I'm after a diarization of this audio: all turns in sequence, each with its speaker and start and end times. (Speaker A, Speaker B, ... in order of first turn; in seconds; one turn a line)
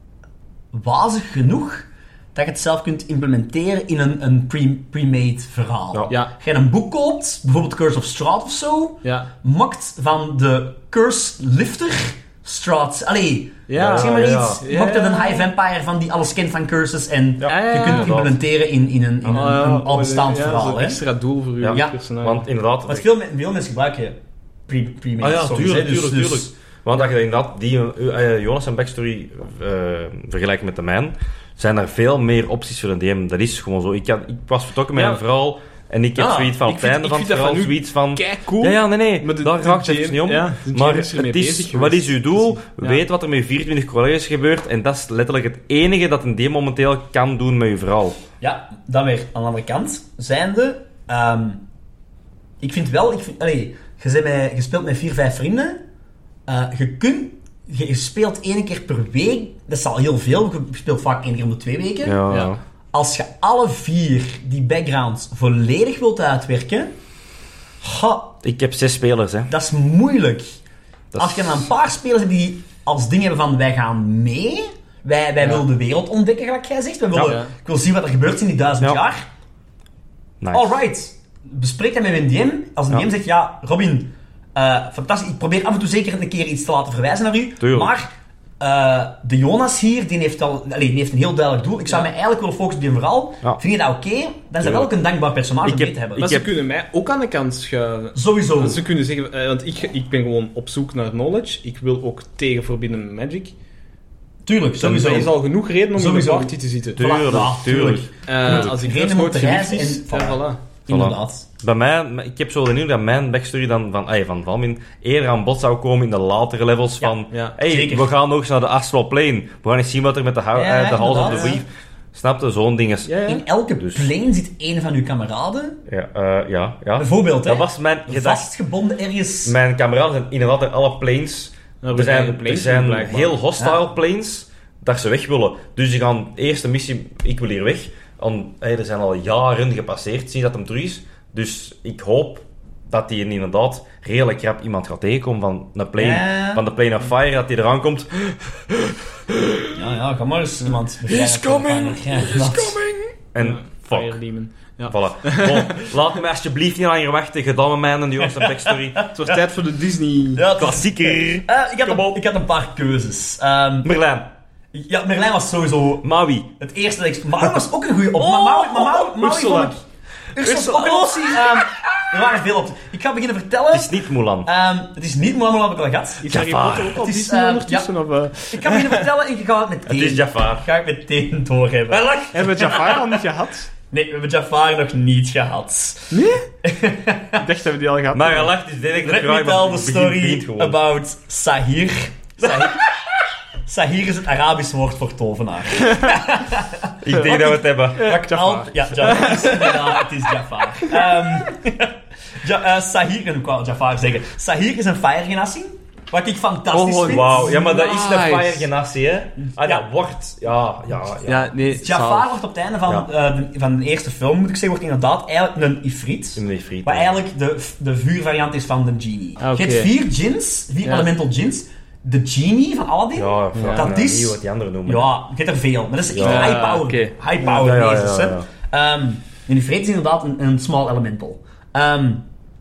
Speaker A: 0.7-21.0
Speaker B: 13.7-15.5
Speaker C: 13.8-14.6
Speaker C: 17.4-18.4
Speaker B: 17.4-18.2
Speaker B: 19.3-22.5
Speaker C: 21.6-23.1
Speaker A: 21.7-22.0
Speaker A: 22.9-26.5
Speaker C: 25.2-48.2
Speaker B: 34.9-35.2
Speaker A: 36.2-36.5
Speaker B: 36.6-43.0
Speaker A: 48.4-51.6
Speaker A: 52.6-55.8
Speaker A: 56.5-62.2
Speaker C: 62.0-62.6
Speaker A: 62.9-66.9
Speaker A: 67.8-68.4
Speaker C: 68.4-69.5
Speaker A: 69.5-70.6
Speaker C: 71.1-71.7
Speaker A: 71.2-79.2
Speaker C: 77.1-77.4
Speaker B: 77.2-77.5
Speaker C: 80.4-80.7
Speaker A: 80.5-96.3
Speaker C: 87.6-87.9
Speaker C: 94.6-94.9
Speaker C: 95.6-96.5
Speaker B: 96.2-103.5
Speaker A: 98.1-98.8
Speaker A: 104.4-105.3
Speaker B: 104.8-107.0
Speaker A: 105.9-111.5
Speaker C: 107.0-108.7
Speaker B: 108.3-110.7
Speaker C: 110.9-123.2
Speaker A: 117.0-118.1
Speaker A: 120.5-121.6
Speaker B: 121.2-121.6
Speaker B: 123.0-123.4
Speaker A: 123.2-125.8
Speaker C: 123.8-124.1
Speaker C: 125.9-128.4
Speaker A: 127.0-129.6
Speaker C: 129.4-149.7
Speaker B: 131.8-133.4
Speaker A: 146.0-146.6
Speaker A: 149.7-152.8
Speaker C: 151.1-154.2
Speaker B: 153.4-155.9
Speaker C: 154.9-159.0
Speaker A: 158.2-159.4
Speaker B: 159.1-160.5
Speaker A: 160.3-163.9
Speaker C: 160.5-162.2
Speaker C: 163.8-164.3
Speaker A: 164.7-166.1
Speaker C: 166.0-166.5
Speaker A: 166.6-169.8
Speaker C: 168.2-169.6
Speaker B: 168.3-169.7
Speaker A: 170.3-176.2
Speaker B: 170.4-171.5
Speaker C: 173.7-174.5
Speaker B: 176.2-179.1
Speaker C: 176.3-177.0
Speaker A: 176.9-177.9
Speaker A: 178.5-183.1
Speaker C: 179.8-180.7
Speaker B: 182.3-183.7
Speaker A: 183.9-187.4
Speaker B: 186.1-186.4
Speaker B: 187.3-188.5
Speaker C: 188.1-190.8
Speaker A: 189.0-192.9
Speaker A: 193.7-207.5
Speaker C: 197.0-198.1
Speaker B: 197.1-200.1
Speaker B: 200.8-201.2
Speaker C: 206.7-211.5
Speaker B: 206.8-208.7
Speaker A: 209.4-209.8
Speaker B: 211.2-212.4
Speaker A: 211.7-232.2
Speaker C: 216.4-217.1
Speaker B: 219.4-219.9
Speaker B: 220.8-221.1
Speaker C: 223.2-225.1
Speaker B: 223.5-223.9
Speaker C: 226.1-226.6
Speaker B: 226.2-227.2
Speaker C: 227.4-228.5